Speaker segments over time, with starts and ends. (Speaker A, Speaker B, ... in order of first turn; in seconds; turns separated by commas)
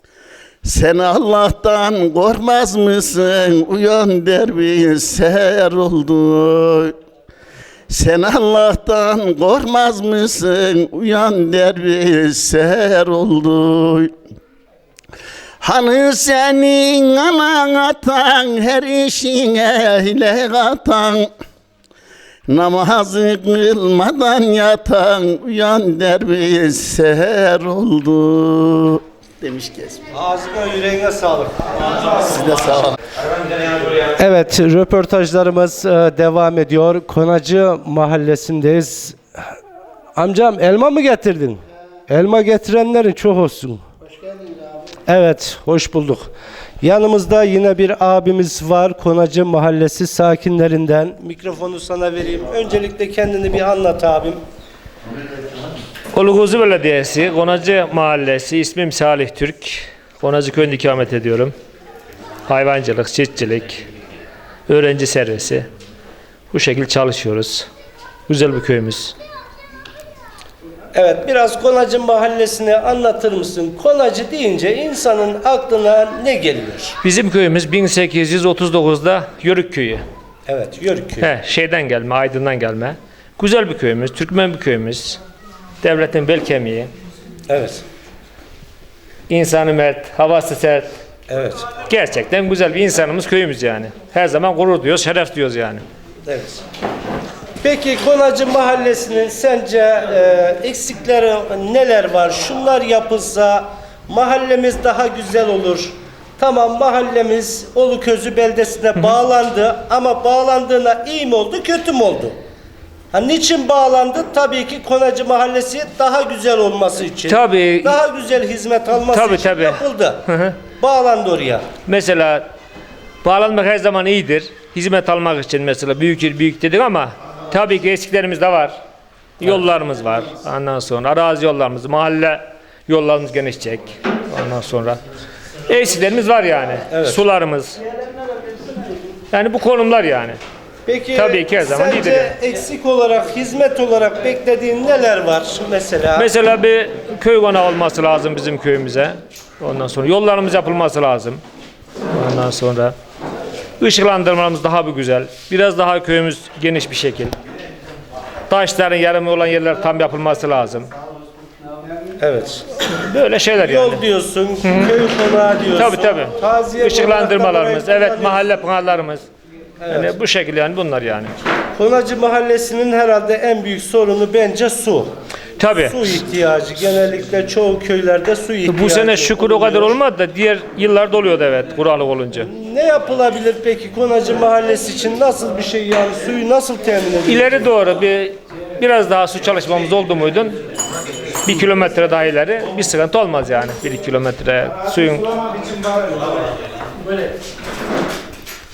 Speaker A: 0.6-6.9, Speaker A: 7.9-14.1, Speaker A: 15.6-21.3, Speaker A: 22.5-30.0, Speaker B: 30.1-32.1, Speaker A: 32.2-33.0, Speaker B: 34.1-39.5, Speaker B: 40.2-43.9, Speaker B: 45.1-46.3, Speaker B: 46.8-54.4, Speaker C: 56.1-61.5, Speaker C: 62.5-63.9, Speaker C: 64.7-65.7, Speaker C: 66.5-67.7, Speaker C: 68.3-69.2, Speaker B: 70.9-77.0, Speaker C: 77.0-80.0, Speaker B: 80.5-81.3, Speaker C: 81.2-85.2, Speaker C: 85.8-86.9, Speaker B: 87.5-87.8, Speaker C: 89.3-91.0, Speaker B: 91.3-91.7, Speaker C: 91.9-95.8, Speaker B: 96.3-96.6, Speaker B: 97.6-112.4, Speaker B: 113.1-121.7, Speaker C: 117.3-118.0, Speaker C: 119.1-120.6, Speaker C: 121.9-122.5, Speaker C: 123.2-128.8, Speaker C: 129.4-135.0, Speaker C: 135.7-137.8, Speaker B: 136.9-137.2, Speaker C: 139.3-140.4, Speaker B: 140.9-146.3, Speaker C: 141.1-142.3, Speaker C: 146.2-151.4, Speaker C: 152.1-153.0, Speaker C: 153.8-157.4, Speaker C: 158.5-160.9, Speaker B: 162.2-162.7, Speaker C: 162.9-164.0, Speaker B: 163.6-168.4, Speaker C: 164.6-165.0, Speaker C: 165.8-169.3, Speaker B: 169.8-170.2, Speaker C: 169.9-171.3, Speaker B: 171.8-175.1, Speaker C: 175.6-176.0, Speaker B: 175.8-180.0, Speaker C: 178.7-182.5, Speaker B: 182.4-187.7, Speaker C: 187.3-190.6, Speaker C: 191.4-195.2, Speaker B: 195.3-196.4